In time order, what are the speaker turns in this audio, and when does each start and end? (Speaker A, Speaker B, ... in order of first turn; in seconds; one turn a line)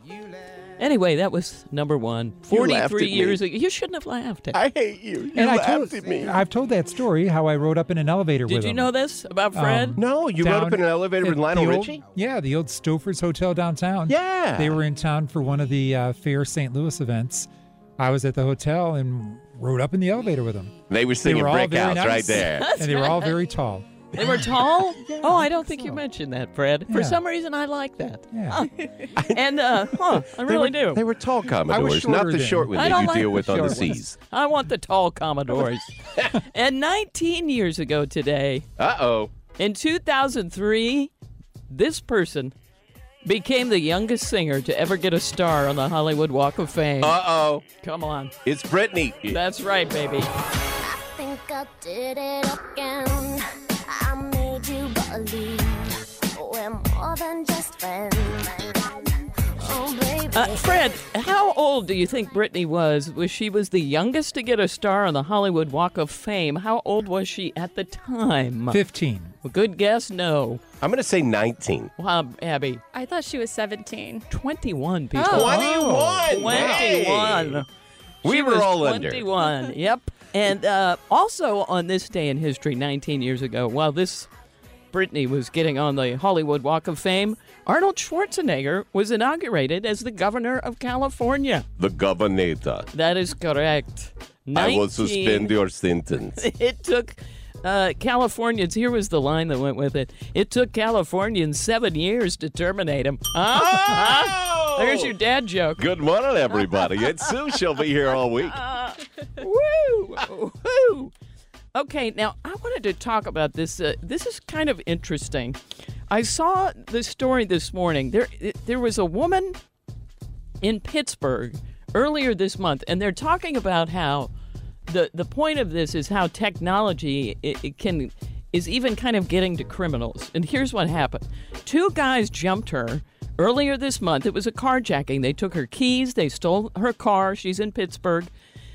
Speaker A: 0.8-4.6
Speaker B: 2.5-3.4
Speaker B: 4.5-6.3
Speaker C: 5.3-8.9
Speaker A: 8.5-10.0
Speaker C: 9.5-20.7
Speaker B: 10.0-12.0
Speaker B: 14.1-14.8
Speaker B: 20.9-22.7
Speaker C: 21.2-23.9
Speaker A: 22.5-23.3
Speaker B: 24.1-24.5
Speaker A: 24.2-28.7
Speaker C: 25.4-26.0
Speaker C: 26.9-27.2
Speaker C: 28.3-28.6
Speaker A: 29.2-31.0
Speaker B: 30.3-34.1
Speaker C: 31.7-33.9
Speaker A: 32.7-38.6
Speaker B: 38.8-39.3
Speaker A: 39.6-41.1
Speaker A: 41.7-42.5
Speaker A: 43.2-47.2
Speaker B: 47.0-47.6
Speaker A: 47.8-48.3
Speaker B: 48.4-49.4
Speaker A: 49.3-50.3
Speaker D: 50.8-58.9
Speaker D: 59.6-60.7
Speaker A: 60.3-68.8
Speaker C: 68.7-69.3
Speaker A: 69.4-70.6
Speaker B: 70.8-71.9
Speaker A: 72.0-72.8
Speaker E: 72.9-74.2
Speaker A: 74.3-77.7
Speaker E: 75.1-77.0
Speaker B: 75.3-77.6
Speaker B: 78.2-79.3
Speaker A: 78.2-84.3
Speaker A: 84.9-91.6
Speaker B: 91.8-92.9
Speaker A: 92.9-95.5
Speaker B: 94.5-96.4
Speaker A: 96.3-105.9
Speaker B: 103.5-105.1
Speaker B: 105.8-108.6
Speaker A: 108.5-111.1
Speaker A: 111.7-115.6
Speaker A: 116.1-119.6
Speaker A: 120.6-124.3
Speaker A: 124.9-138.3